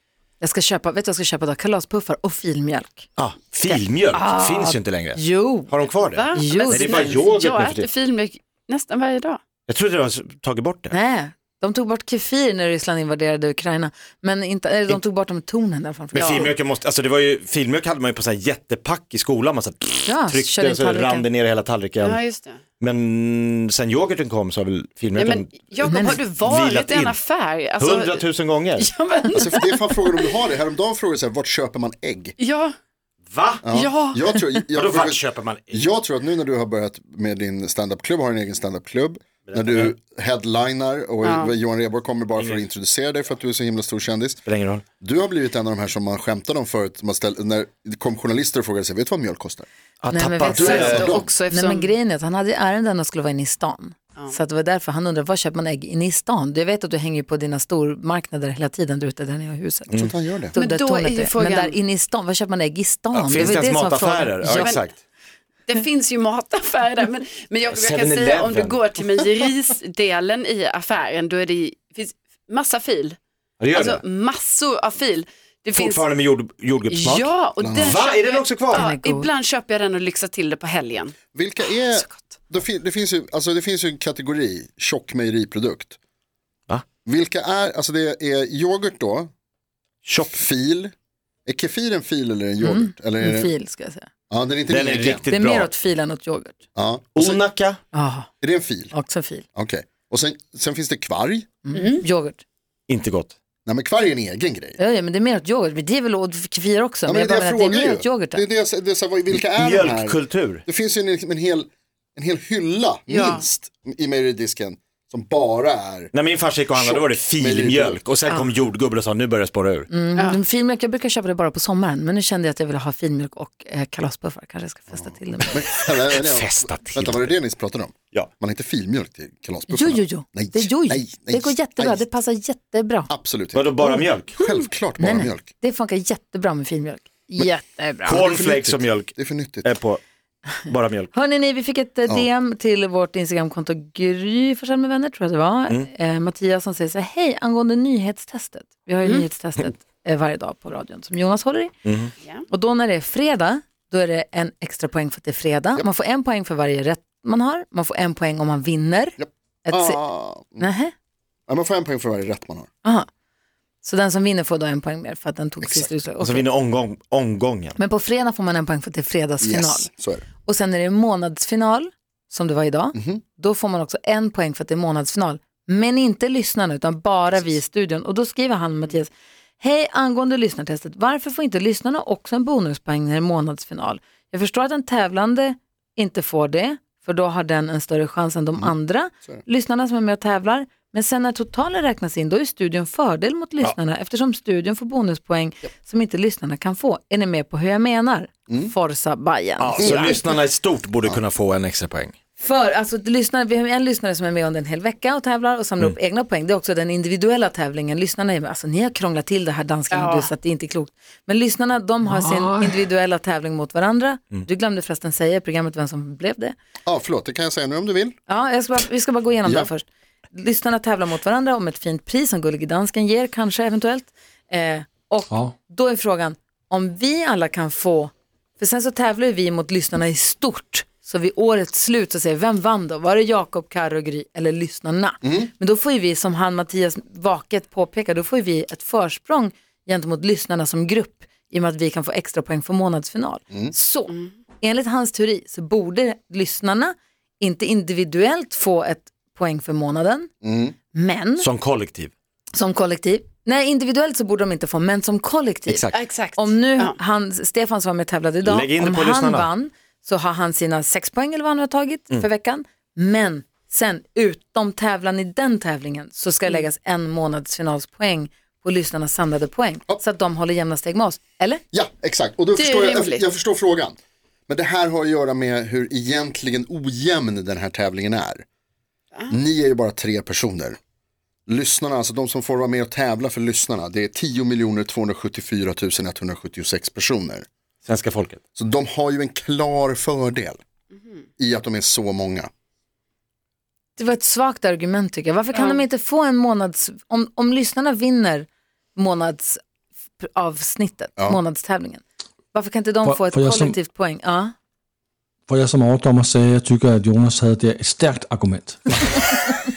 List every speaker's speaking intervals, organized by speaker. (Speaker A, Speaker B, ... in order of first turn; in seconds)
Speaker A: 0.4-3.1, 3.7-5.7, 6.3-7.2, 10.9-16.5, 20.1-21.2, 25.8-26.2, 50.1-60.0, 60.5-64.7, 78.8-79.3, 92.6-94.1, 95.3-96.6, 97.9-98.3, 98.9-99.4, 101.6-102.4, 104.8-108.4, 119.9-125.7, 129.7-133.1, 135.0-138.2, 141.1-151.7, 152.5-160.0, 160.6-160.9, 162.8-163.1, 163.8-166.4, 167.8-169.9, 170.4-200.2, 202.4-216.5, 218.3-250.3, 250.9-251.5, 252.5-271.6, 293.9-299.6, 300.2-304.5
Speaker B: 3.2-7.9, 9.7-10.9, 16.2-22.2, 22.8-27.2, 27.8-28.9, 33.3-33.6, 34.7-35.9, 39.5-39.9, 44.4-44.8, 50.0-51.2, 63.1-65.0, 67.7-68.8, 73.6-74.0, 75.7-78.8, 90.0-90.4, 94.7-95.7, 97.2-97.8, 102.9-103.3, 109.3-110.6, 116.1-119.9, 125.8-127.3, 133.5-134.3, 138.0-140.0, 140.7-141.1, 151.8-152.1, 166.2-167.8, 199.6-202.1, 251.4-252.1, 255.7-256.0, 258.4-259.5, 287.9-288.4
Speaker C: 6.0-9.4, 16.1-16.5, 22.0-22.6, 25.1-30.3, 32.4-32.7, 33.7-34.3, 41.2-41.5, 50.5-51.9, 60.5-61.8, 64.4-64.8, 65.7-73.2, 73.7-76.0, 76.9-81.1, 101.7-102.0, 113.1-113.4, 209.9-210.3, 255.9-256.9, 272.6-273.2, 295.5-295.8
Speaker D: 29.3-32.3, 33.6-44.4, 45.0-49.7, 50.5-51.3, 59.9-60.5, 77.6-78.0, 81.3-86.0, 87.0-89.3, 90.3-90.9, 91.5-93.5, 94.3-95.2, 96.7-97.4, 98.4-98.9, 99.5-101.5, 103.6-104.8, 107.0-116.1, 116.7-118.0, 124.9-132.0, 133.1-135.5, 138.1-139.7, 159.2-160.7, 161.5-162.7, 165.6-165.9, 169.4-170.2, 172.9-173.2, 199.8-200.2, 216.8-218.2, 219.4-219.7, 235.2-235.5, 250.4-250.8, 271.7-273.9, 274.5-278.4, 279.3-280.8, 281.5-287.4, 288.6-290.6, 291.4-292.5
Speaker E: 303.0-303.7, 305.5-309.0